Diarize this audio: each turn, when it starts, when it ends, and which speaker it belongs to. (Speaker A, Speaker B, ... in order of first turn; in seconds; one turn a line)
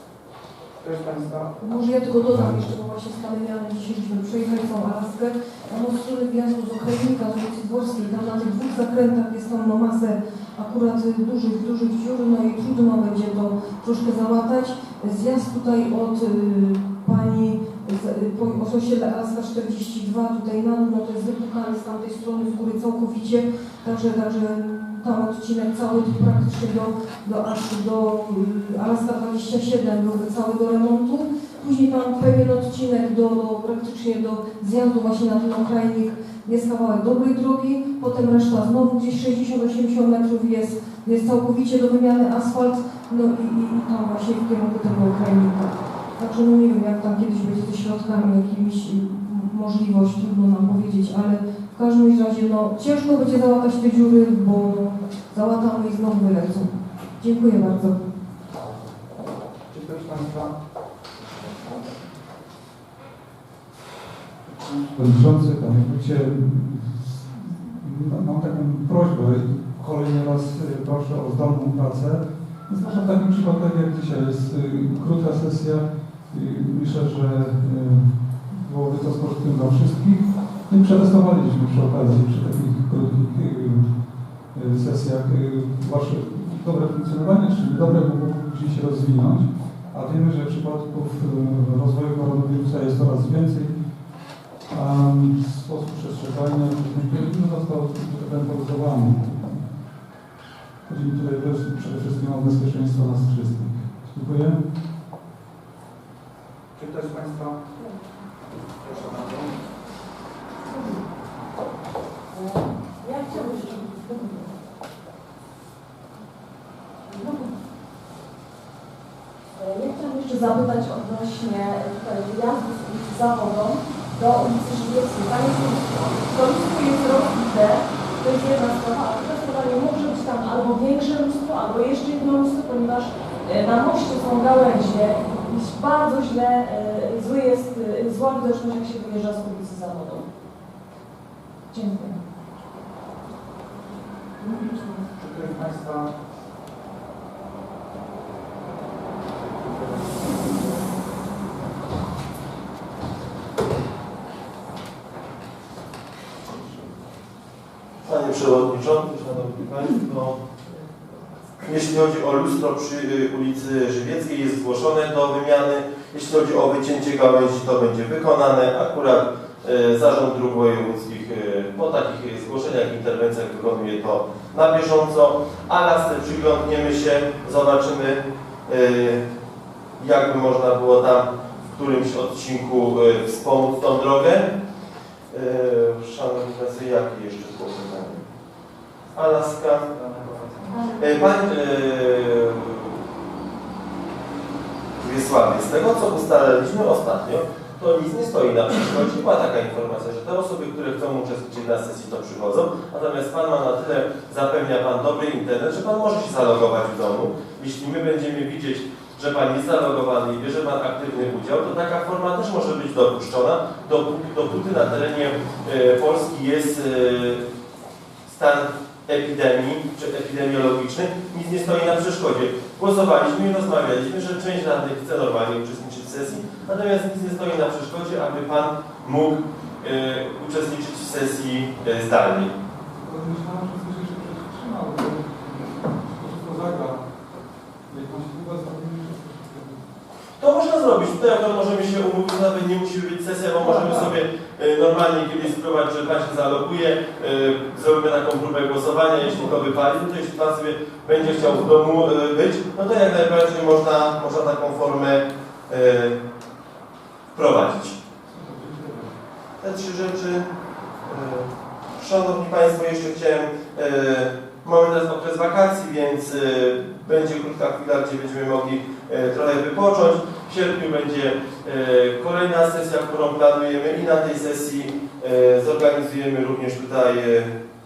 Speaker A: 0.8-1.5
Speaker B: 1.6-58.0
Speaker A: 59.7-60.5
Speaker C: 64.5-93.9
Speaker C: 94.7-99.8
Speaker C: 100.8-104.7
Speaker A: 106.8-107.6
Speaker A: 108.8-109.6
Speaker D: 110.7-111.0
Speaker D: 112.3-114.5
Speaker D: 117.1-117.5
Speaker D: 119.6-140.3
Speaker D: 141.7-142.2
Speaker D: 144.4-144.8
Speaker A: 145.0-146.1
Speaker A: 149.6-150.4
Speaker E: 158.0-160.4
Speaker E: 161.6-179.2
Speaker E: 180.0-184.5
Speaker E: 185.3-188.3
Speaker E: 189.1-189.9
Speaker A: 189.9-190.8
Speaker E: 191.0-193.0
Speaker E: 195.0-217.4
Speaker E: 218.2-232.5
Speaker C: 232.9-237.2
Speaker C: 237.8-239.8
Speaker E: 240.4-256.2
Speaker E: 257.3-258.0
Speaker C: 258.3-259.1
Speaker E: 259.6-260.5
Speaker E: 261.1-277.5